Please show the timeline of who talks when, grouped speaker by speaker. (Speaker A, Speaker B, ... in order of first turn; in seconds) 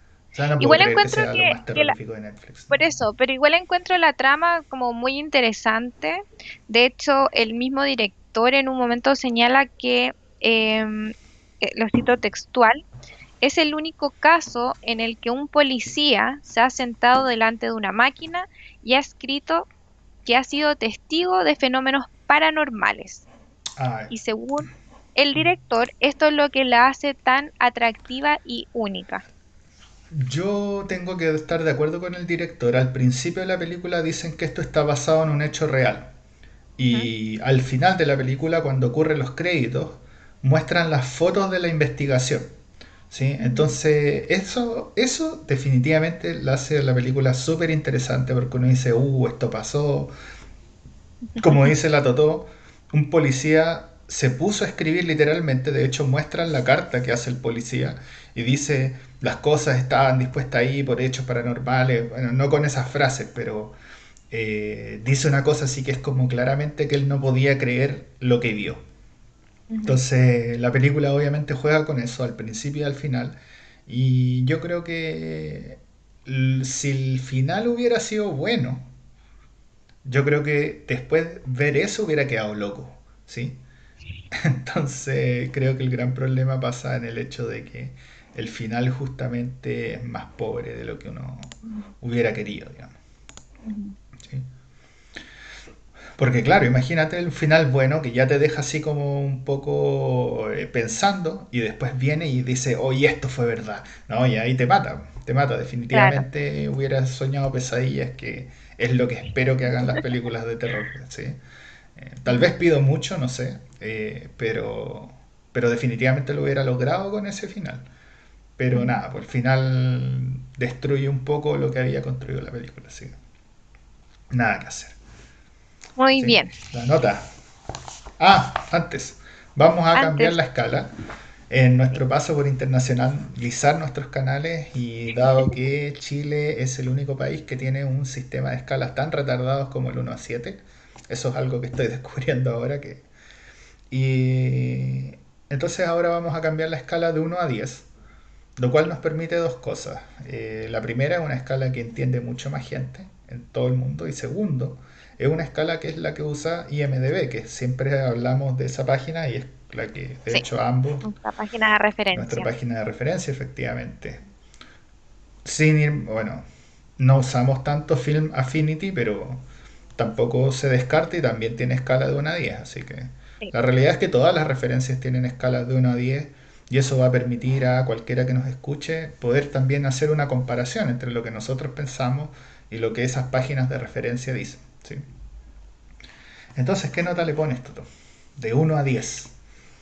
Speaker A: 0.3-2.8, 23.8-24.1, 30.1-36.1, 36.8-42.5, 43.1-50.1, 51.4-63.7, 64.3-68.8, 69.8-73.3, 73.9-78.9, 80.0-83.6, 84.3-93.0, 96.2-111.4, 112.0-117.9, 118.6-123.2, 124.3-125.0, 126.2-127.3, 128.2-130.9, 131.5-143.1, 143.9-147.9, 148.6-161.1, 162.1-164.2, 165.4-166.4, 167.0-169.4, 170.0-185.0, 186.6-187.8, 188.4-189.3
Speaker B: 0.6-1.9, 2.7-12.8, 13.4-19.7, 20.2-23.2, 24.1-29.2, 43.4-43.8, 51.4-51.7, 69.7-70.0, 93.6-94.0, 105.9-106.2, 118.7-119.0, 126.0-126.5, 129.9-130.3, 161.0-162.5